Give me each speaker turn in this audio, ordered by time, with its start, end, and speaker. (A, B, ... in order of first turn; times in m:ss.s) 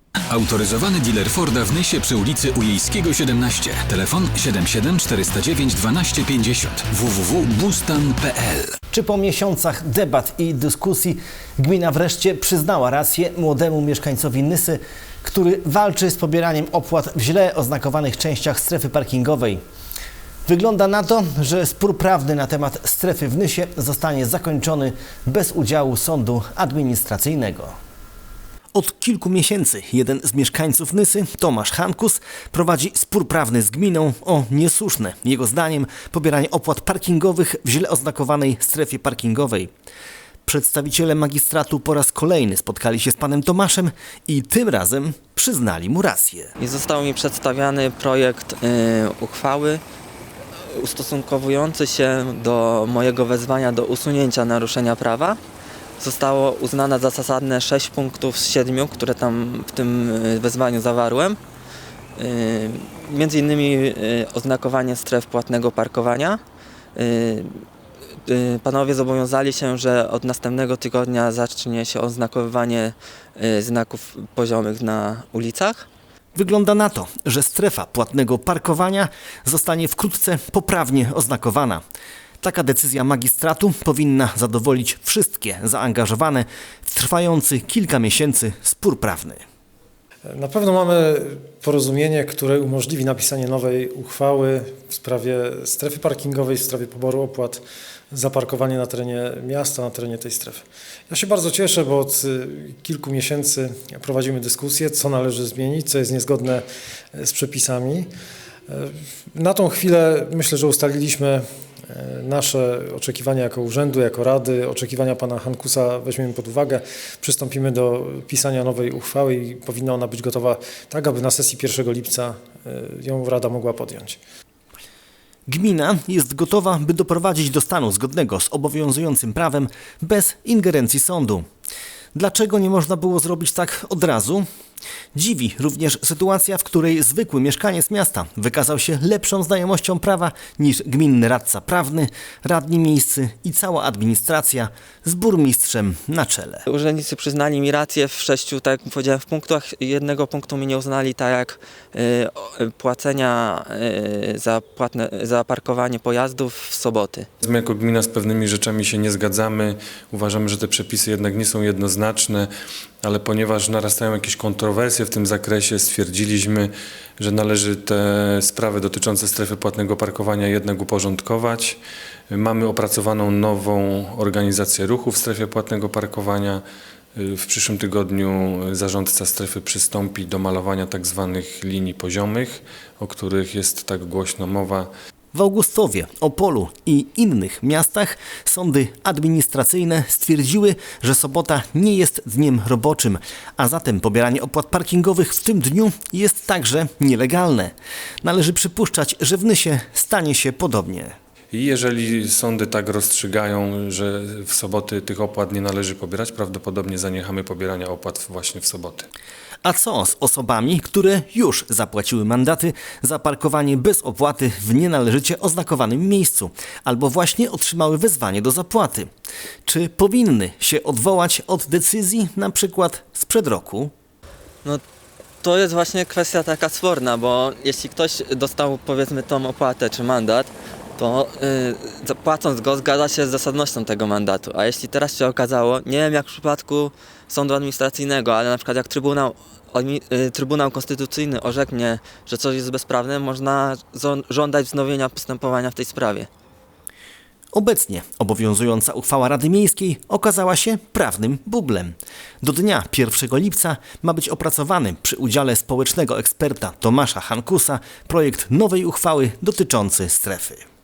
0:00.3-0:08.7 A
0:08.9-0:19.6 B
0:20.5-0:27.8 B
0:28.7-0:39.7 B
0:40.5-0:46.5 B
0:46.6-0:49.8 C
0:50.6-0:55.4 C
0:56.0-1:01.4 C
1:02.2-1:06.4 C
1:07.0-1:07.6 C
1:08.3-1:15.9 C
1:16.4-1:21.8 B
1:22.4-1:29.4 B
1:30.3-1:48.1 D
1:48.7-2:04.2 D
2:05.5-2:11.5 B
2:12.1-2:14.4 B
2:15.1-2:26.6 B
2:26.7-2:37.3 C
2:37.4-2:42.5 E
2:43.0-2:51.8 E
2:52.3-2:56.6 E
2:57.2-3:04.9 E
3:05.3-3:21.1 B
3:21.5-3:29.1 E
3:29.6-3:39.1 B
3:39.7-3:43.9 B
3:45.4-4:06.3 C
4:07.5-4:20.6 B